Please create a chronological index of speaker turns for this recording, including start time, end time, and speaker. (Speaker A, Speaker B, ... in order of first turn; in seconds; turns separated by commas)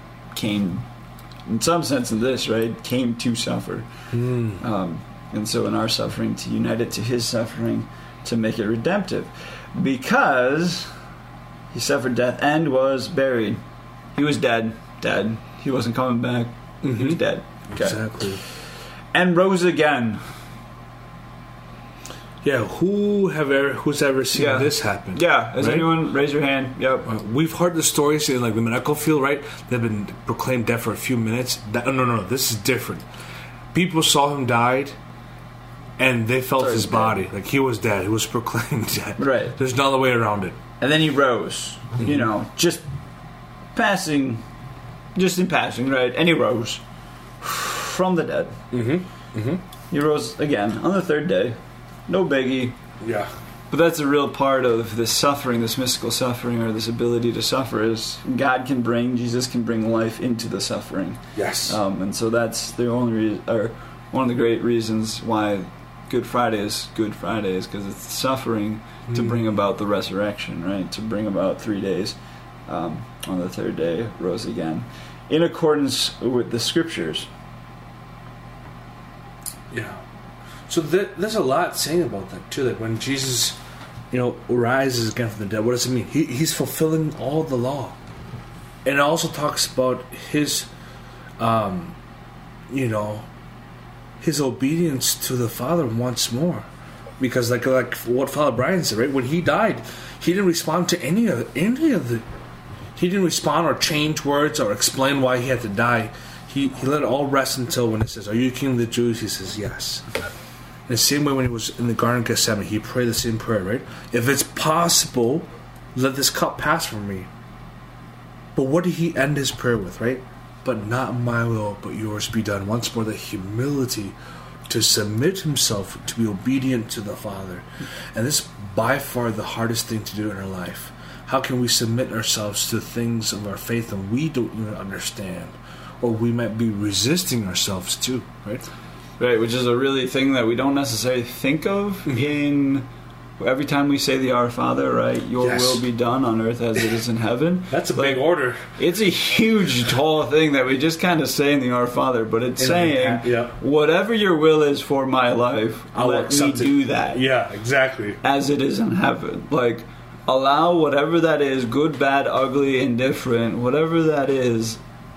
Speaker A: 0.3-0.8, Speaker A: 1.5-3.9, Speaker B: 4.1-4.6, Speaker A: 4.6-10.9, Speaker A: 11.7-13.6, Speaker A: 14.1-18.3, Speaker B: 16.8-18.4, Speaker A: 19.1-20.2, Speaker B: 22.4-25.9, Speaker A: 24.3-27.1, Speaker B: 27.1-33.0, Speaker B: 33.7-34.9, Speaker B: 36.0-40.6, Speaker A: 36.6-37.1, Speaker A: 39.2-39.5, Speaker A: 40.8-42.8, Speaker A: 43.7-44.4, Speaker A: 45.1-46.8, Speaker A: 47.4-48.6, Speaker B: 48.7-49.6, Speaker A: 49.9-51.5, Speaker A: 52.1-52.7, Speaker B: 53.0-53.3, Speaker A: 53.7-72.2, Speaker B: 61.4-61.8, Speaker B: 69.1-69.4, Speaker A: 72.7-77.3, Speaker B: 79.7-80.0, Speaker B: 80.7-83.6, Speaker B: 84.1-88.0, Speaker B: 88.8-90.7, Speaker B: 91.4-92.0, Speaker B: 92.7-93.3, Speaker B: 94.2-96.7, Speaker B: 97.2-102.2, Speaker B: 103.0-110.1, Speaker B: 110.9-117.3, Speaker B: 118.5-124.1, Speaker B: 124.7-138.7, Speaker A: 139.2-142.8, Speaker A: 143.4-148.2, Speaker B: 145.4-145.8, Speaker B: 147.7-148.7, Speaker A: 148.8-157.2, Speaker B: 152.6-153.6, Speaker B: 155.9-158.2, Speaker A: 158.2-164.8